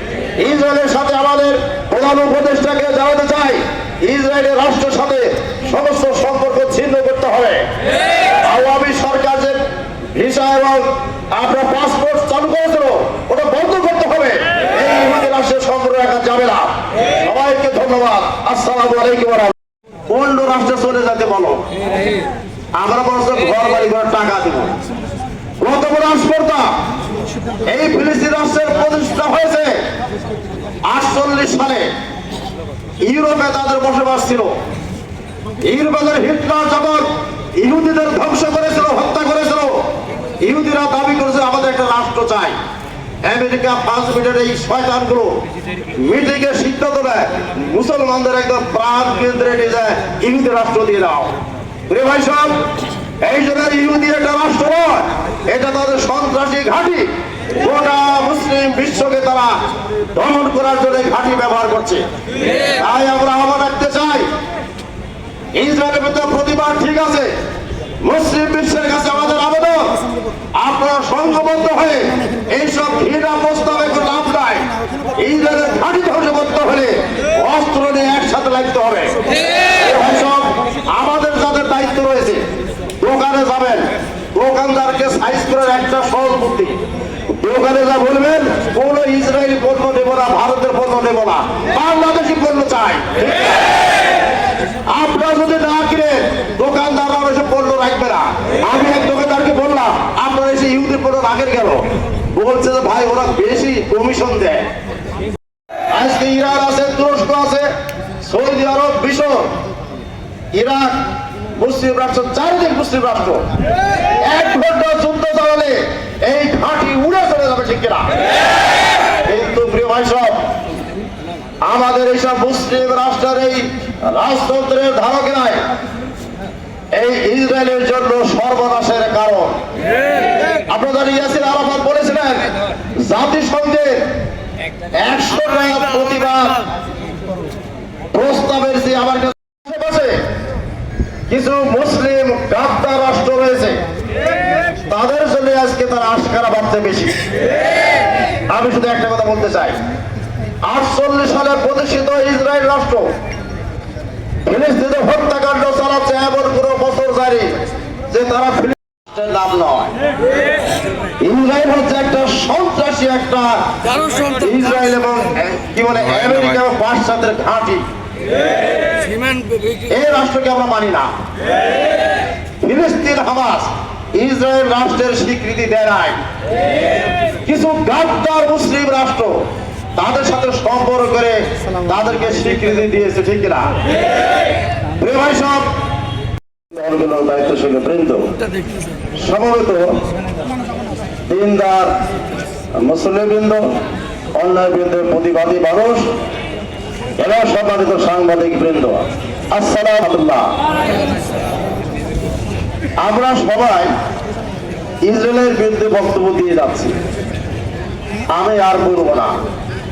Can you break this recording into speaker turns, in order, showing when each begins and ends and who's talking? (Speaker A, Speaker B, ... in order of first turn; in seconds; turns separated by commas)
Speaker A: 0.4-7.6, Speaker A: 8.4-9.6, Speaker A: 10.1-19.6, Speaker A: 20.1-21.6, Speaker A: 22.8-24.7, Speaker A: 25.6-26.7, Speaker A: 27.7-29.8, Speaker A: 30.9-31.9, Speaker A: 33.0-34.5, Speaker A: 35.6-39.8, Speaker A: 40.4-42.6, Speaker A: 43.2-45.4, Speaker A: 46.0-51.3, Speaker A: 51.9-52.6, Speaker A: 53.2-59.6, Speaker A: 60.1-62.0, Speaker A: 62.7-64.3, Speaker A: 65.5-67.3, Speaker A: 68.0-69.9, Speaker A: 70.6-79.2, Speaker A: 79.7-82.4, Speaker A: 83.0-86.8, Speaker A: 87.3-93.7, Speaker A: 94.9-104.7, Speaker A: 105.9-107.7, Speaker A: 108.2-109.5, Speaker A: 110.5-111.0, Speaker A: 111.6-113.5, Speaker A: 114.2-118.1, Speaker A: 119.2-120.4, Speaker A: 121.7-125.6, Speaker A: 126.9-129.6, Speaker A: 130.7-134.1, Speaker A: 134.9-136.6, Speaker A: 138.1-140.2, Speaker A: 141.3-143.8, Speaker A: 144.9-147.3, Speaker A: 148.5-149.8, Speaker A: 150.7-153.1, Speaker A: 154.5-157.5, Speaker A: 158.1-159.9, Speaker A: 161.2-163.6, Speaker A: 164.2-167.8, Speaker A: 169.9-171.1, Speaker A: 172.6-176.2, Speaker A: 177.4-179.4, Speaker A: 180.0-183.7, Speaker A: 185.0-185.7, Speaker A: 186.7-188.2, Speaker A: 189.2-190.0, Speaker A: 191.3-191.9, Speaker A: 192.8-193.7, Speaker A: 194.4-196.1, Speaker A: 197.2-200.6, Speaker A: 203.0-203.9, Speaker A: 205.1-206.9, Speaker A: 208.3-209.4